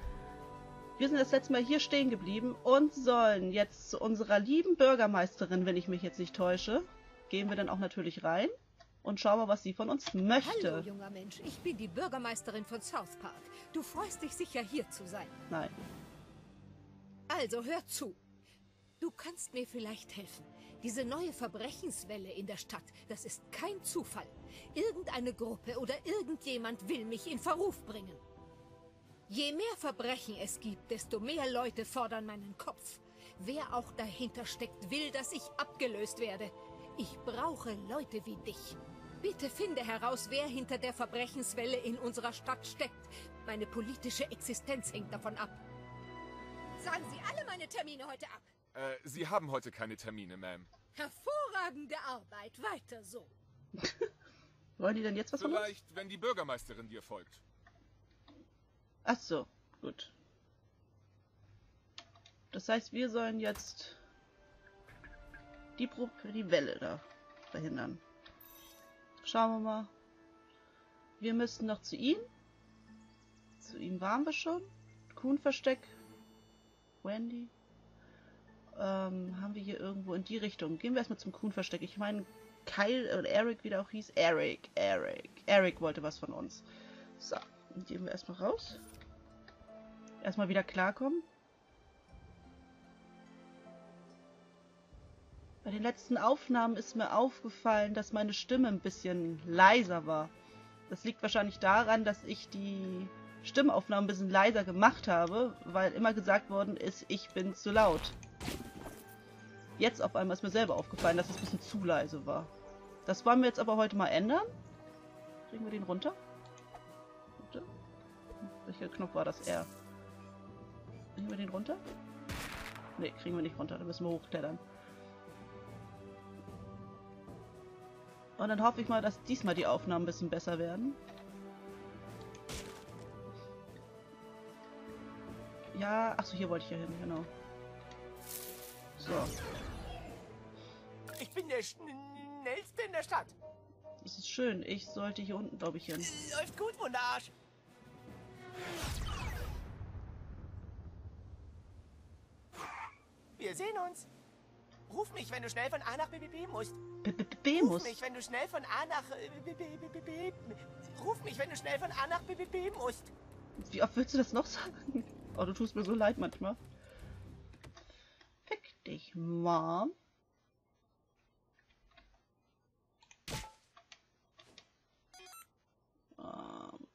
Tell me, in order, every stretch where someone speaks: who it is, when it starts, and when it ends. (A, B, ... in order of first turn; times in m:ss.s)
0:01.0-0:10.9 A
0:10.4-0:15.3 B
0:15.5-0:15.7 A
0:17.3-0:18.2 B
0:19.0-0:28.2 B
0:29.3-0:45.6 B
0:46.8-0:48.5 B
0:48.7-0:50.7 C
0:50.9-0:53.3 B
0:53.8-0:54.1 A
0:54.8-0:55.7 A
0:55.4-0:57.4 C
0:59.0-1:00.1 A
1:02.5-1:04.0 A
1:05.8-1:08.0 A
1:09.2-1:09.9 A
1:11.2-1:12.2 A
1:13.6-1:15.9 A
1:17.0-1:17.5 A
1:18.7-1:26.6 A
1:27.2-1:28.8 A
1:30.2-1:31.2 A
1:35.6-1:40.3 A
1:40.9-1:48.2 A
1:49.8-1:52.5 A
1:53.0-1:54.5 A
1:55.5-1:56.2 A
1:57.4-1:57.7 A
1:58.4-1:59.7 A
2:01.1-2:01.8 A
2:03.0-2:04.6 A
2:08.4-2:11.0 A
2:15.7-2:17.3 A
2:19.0-2:19.3 A
2:21.2-2:23.4 D
2:24.0-2:26.1 A
2:26.0-2:27.3 D
2:33.3-2:34.1 D
2:34.9-2:36.8 D
2:37.0-2:38.0 A
2:37.6-2:43.1 D
2:43.6-2:46.6 A
2:48.4-2:49.9 A
2:56.2-2:56.8 A